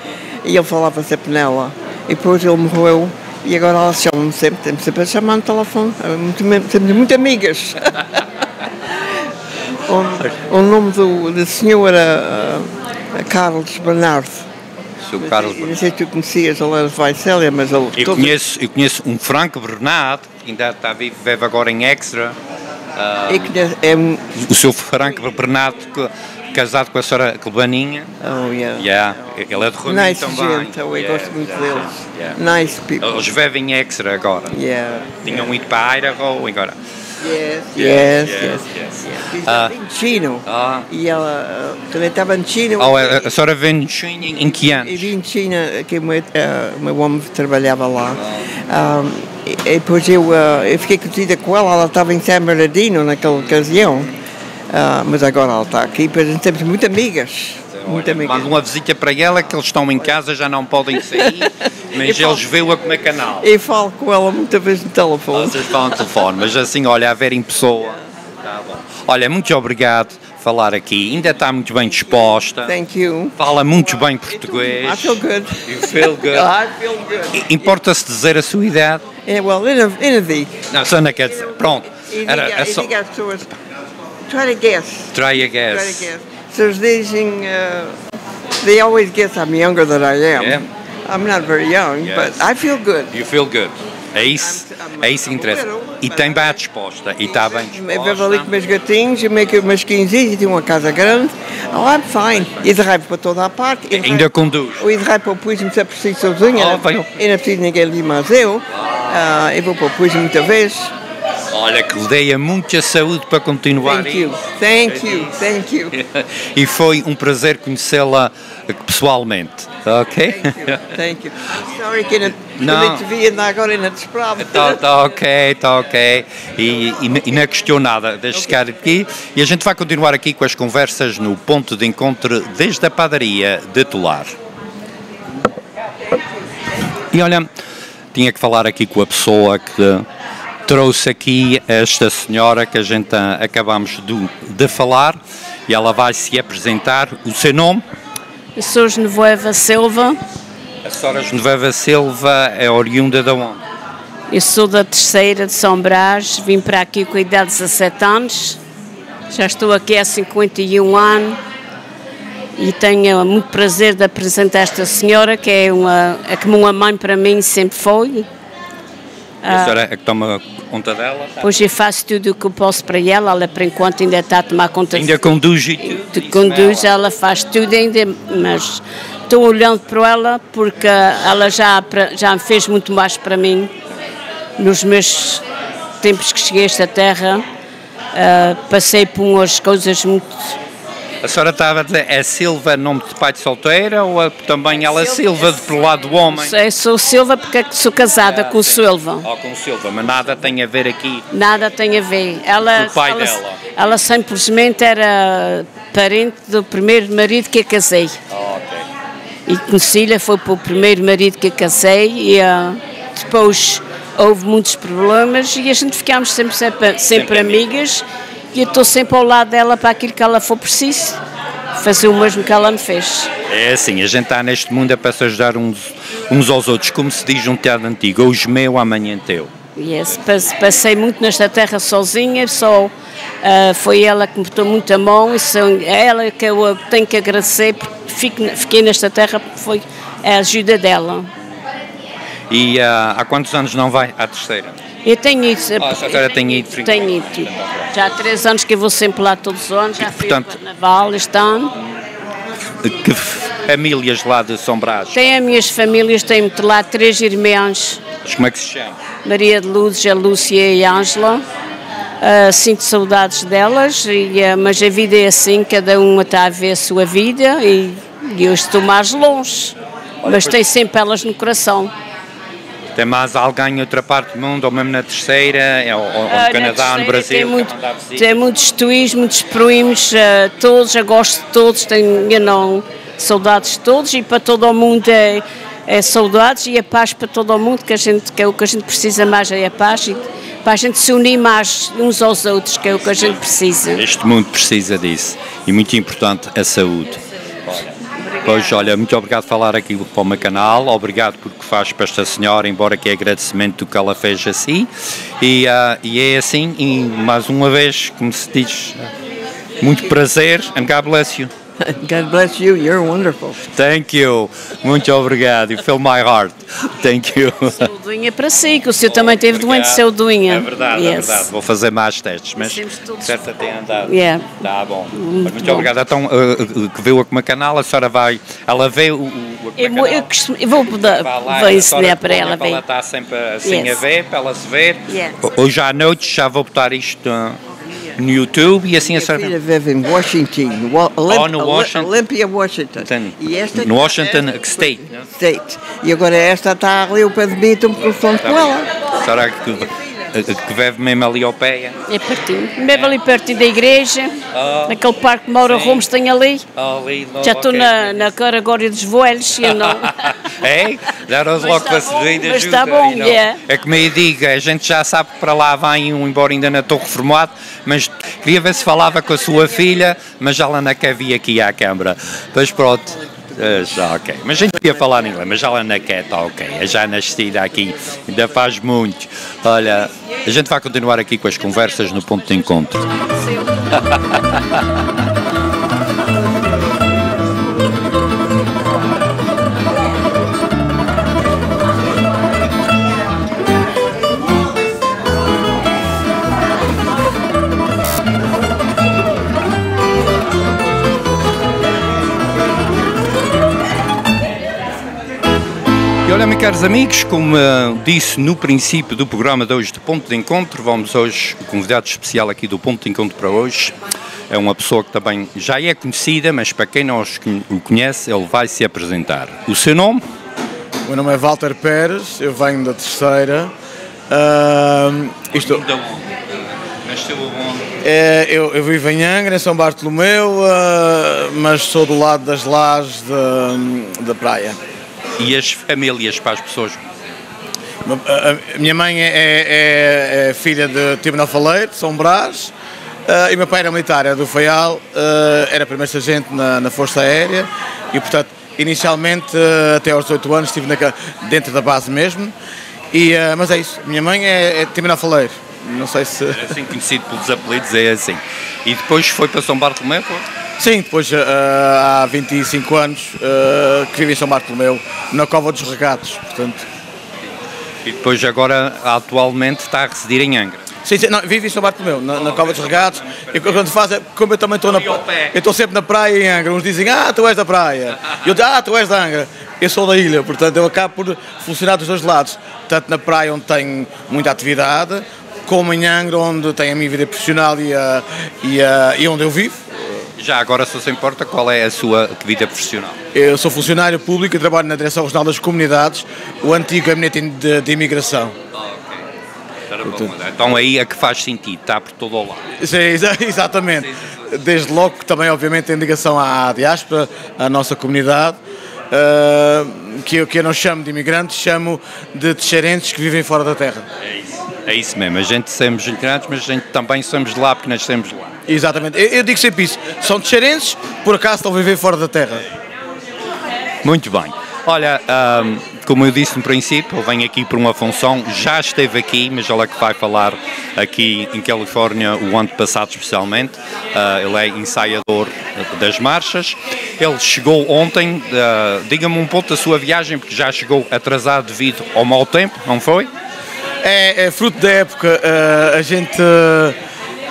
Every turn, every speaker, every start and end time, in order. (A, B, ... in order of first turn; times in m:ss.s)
0:00.4-0:08.2 A
0:09.9-0:14.5 A
0:15.0-0:15.8 B
0:15.2-0:18.4 A
0:18.0-0:22.4 B
0:23.0-0:23.5 B
0:23.3-0:24.4 A
0:24.4-0:28.1 B
0:28.2-0:28.9 A
0:28.8-0:32.4 B
0:29.8-0:33.3 A
0:33.0-0:34.6 B
0:34.5-0:35.6 A
0:35.2-0:36.8 B
0:37.2-0:43.2 A
0:37.8-0:39.8 B
0:40.5-0:40.9 B
0:42.8-0:45.1 B
0:44.7-0:54.1 A
0:54.7-0:58.5 A
0:57.7-1:03.5 B
1:01.2-1:02.4 A
1:03.4-1:06.1 A
1:05.3-1:12.8 B
1:12.6-1:13.4 A
1:13.4-1:16.5 B
1:14.2-1:17.8 A
1:17.3-1:19.0 B
1:19.3-1:20.6 A
1:20.7-1:22.9 B
1:22.0-1:23.5 A
1:24.3-1:28.0 A
1:25.1-1:26.1 B
1:28.6-1:33.1 A
1:30.3-1:30.7 B
1:32.0-1:32.5 B
1:33.1-1:38.5 B
1:34.4-1:36.6 A
1:37.2-1:50.9 A
1:42.3-1:42.7 B
1:43.9-1:44.9 B
1:46.5-1:47.2 B
1:48.8-1:49.2 B
1:51.5-2:00.9 B
1:53.8-1:55.9 A
2:00.3-2:04.8 A
2:02.5-2:03.0 B
2:04.4-2:14.4 B
2:17.1-2:17.5 B
2:18.1-2:20.1 B
2:20.7-2:27.8 B
2:28.6-2:30.2 C
2:30.8-2:33.6 B
2:34.3-2:38.6 C
2:39.3-2:41.4 C
2:42.6-2:48.3 C
2:49.4-2:49.8 C
2:49.5-2:51.5 B
2:51.4-2:55.3 C
2:54.9-2:56.9 B
2:55.8-3:03.7 C
3:04.6-3:05.4 C
3:06.0-3:07.4 C
3:08.1-3:10.6 C
3:11.2-3:16.6 B
3:14.7-3:19.2 C
3:18.2-3:21.3 B
3:21.3-3:28.2 C
3:22.6-3:23.6 B
3:28.3-3:28.9 B
3:29.5-3:41.2 C
3:37.1-3:37.6 B
3:41.8-3:43.3 C
3:43.5-3:49.5 B
3:49.8-4:01.3 C
4:02.5-4:04.8 B
4:05.0-4:11.7 C
4:05.8-4:07.9 B
4:10.0-4:10.6 B
4:12.8-4:15.3 B
4:15.1-4:18.0 C
4:18.2-4:19.0 B
4:19.2-4:21.4 C
4:22.2-4:31.9 C
4:30.2-4:30.6 B
4:33.0-4:38.5 B
4:36.3-4:54.1 C
4:54.0-5:04.9 B
5:05.4-5:09.1 B
5:09.8-5:11.5 B
5:09.8-5:10.1 A
5:11.8-5:13.6 A
5:13.7-5:17.9 B
5:17.8-5:21.5 C
5:19.1-5:30.3 B
5:22.6-5:23.4 C
5:24.1-5:24.6 C
5:25.1-5:25.9 C
5:29.8-5:32.8 C
5:30.9-5:37.6 B
5:33.6-5:34.0 C
5:35.1-5:35.4 A
5:38.2-5:39.6 B
5:39.0-5:48.9 A
5:41.3-5:42.1 B
5:43.0-5:45.3 B
5:48.4-5:52.0 B
5:52.1-5:56.6 C
5:52.9-5:53.2 B
5:54.5-5:55.0 B
5:55.7-5:56.0 B
5:56.7-5:58.3 B
5:57.4-6:00.4 C
5:59.6-6:23.1 B
6:01.6-6:03.6 C
6:24.1-6:24.4 B
6:46.2-6:54.0 B
6:54.5-7:00.2 B
7:01.0-7:03.7 D
7:04.3-7:05.8 D
7:05.5-7:07.9 B
7:08.0-7:14.8 D
7:15.4-7:17.0 B
7:18.0-7:22.7 D
7:23.3-7:32.5 D
7:33.1-7:36.6 D
7:36.5-7:40.5 B
7:40.8-7:46.9 D
7:48.0-7:50.8 B
7:51.0-8:10.2 D
7:52.3-7:53.9 B
7:54.9-7:55.6 B
8:10.4-8:13.2 B
8:13.3-8:18.6 D
8:18.7-8:19.2 B
8:19.9-8:22.7 B
8:22.8-8:28.6 D
8:24.0-8:24.5 B
8:29.1-8:34.1 D
8:34.2-8:38.5 B
8:38.7-8:42.6 D
8:44.0-9:03.3 B
9:04.0-9:07.0 D